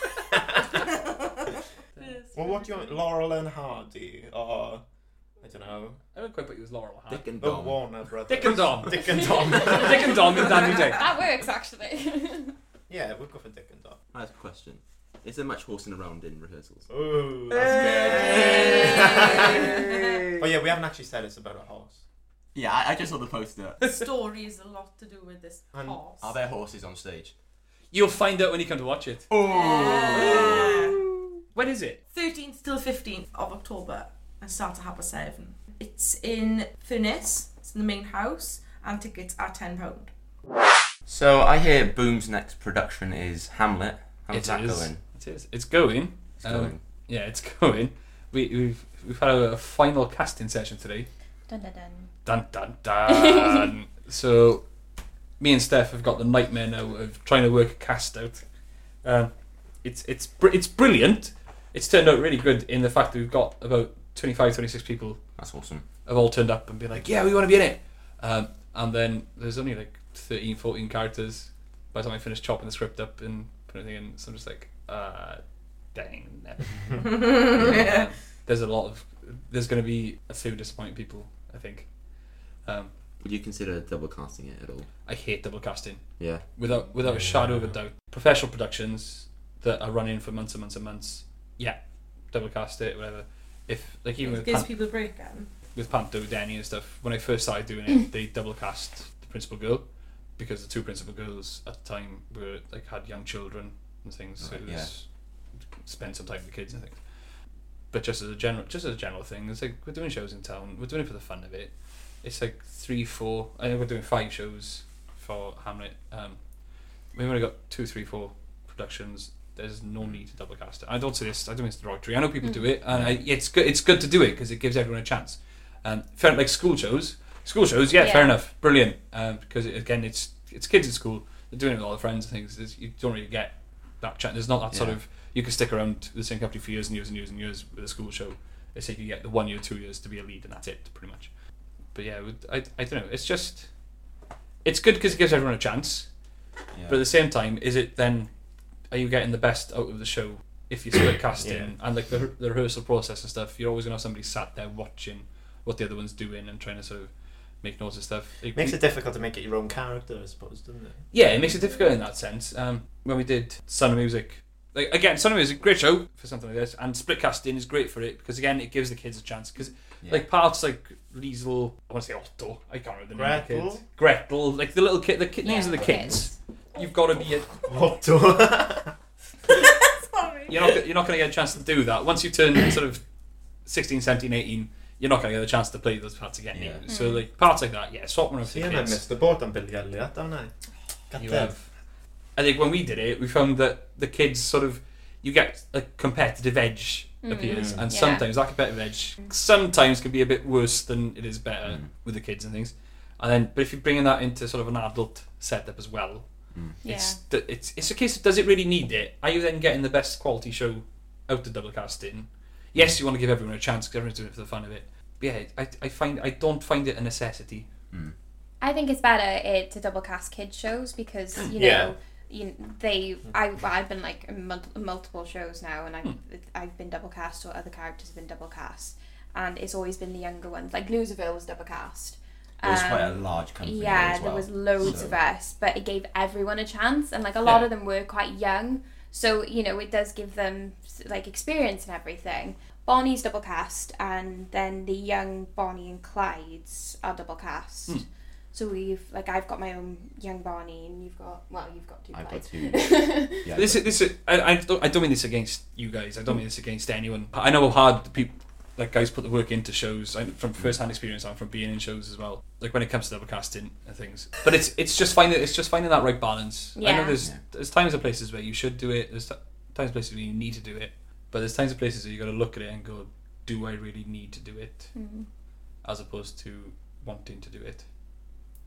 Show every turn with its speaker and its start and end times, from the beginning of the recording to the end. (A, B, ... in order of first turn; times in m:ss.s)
0:00.1-0:00.8 A
0:00.3-0:03.0 B
0:02.3-0:04.8 A
0:05.4-0:06.0 A
0:06.2-0:07.3 C
0:07.1-0:07.8 D
0:07.4-0:10.8 A
0:08.3-0:11.1 C
0:09.1-0:12.6 E
0:12.9-0:14.0 A
0:14.1-0:16.9 D
0:16.9-0:19.8 A
0:17.5-0:20.4 D
0:17.5-0:20.2 B
0:20.4-0:22.0 A
0:22.6-0:23.8 D
0:23.8-0:24.1 C
0:23.8-0:26.3 B
0:25.7-0:26.0 A
0:26.2-0:27.3 D
0:27.9-0:29.3 C
0:29.3-0:30.9 D
0:29.4-0:31.0 B
0:30.1-0:32.0 C
0:32.1-0:40.1 B
0:41.1-0:45.0 D
0:44.3-0:51.1 C
0:46.4-0:46.8 D
0:51.5-0:52.1 E
0:52.2-0:54.6 C
0:53.1-0:53.7 E
0:55.4-0:58.4 C
0:59.0-0:59.3 C
0:59.8-1:05.2 C
1:05.4-1:05.8 D
1:06.1-1:15.4 C
1:15.9-1:21.9 C
1:16.9-1:18.1 B
1:17.6-1:17.9 D
1:22.6-1:22.9 C
1:23.2-1:24.9 D
1:25.1-1:31.8 C
1:26.2-1:26.4 D
1:27.2-1:27.6 A
1:32.3-1:34.7 C
1:34.2-1:35.5 B
1:35.7-1:39.8 C
1:40.4-1:45.0 C
1:44.4-1:44.9 D
1:45.8-1:47.0 C
1:47.9-1:56.4 C
1:57.1-2:21.3 C
2:02.4-2:02.7 E
2:02.9-2:03.2 D
2:08.0-2:08.4 E
2:14.7-2:15.0 D
2:21.9-2:23.7 C
2:24.6-2:26.1 C
2:26.7-2:27.0 D
2:26.9-2:28.3 C
2:28.9-2:37.1 C
2:31.4-2:31.7 A
2:37.6-2:38.8 C
2:38.6-2:41.0 A
2:41.1-2:57.7 C
2:53.2-2:53.8 A
2:55.4-2:56.4 E
2:57.7-2:58.9 A
2:59.5-3:00.8 B
3:00.5-3:03.0 C
3:03.7-3:09.0 C
3:06.5-3:06.8 D
3:06.9-3:07.3 E
3:08.4-3:10.5 A
3:11.1-3:11.5 A
3:11.2-3:11.7 C
3:12.4-3:26.2 C
3:17.2-3:18.3 E
3:17.5-3:17.9 A
3:26.8-3:27.2 E
3:26.8-3:37.7 C
3:38.6-4:13.5 E
3:41.5-3:41.9 A
3:52.6-3:55.2 D
4:12.1-4:13.9 D
4:13.5-4:34.9 C
4:26.8-4:27.2 E
4:34.9-4:35.3 E
4:35.8-4:37.8 C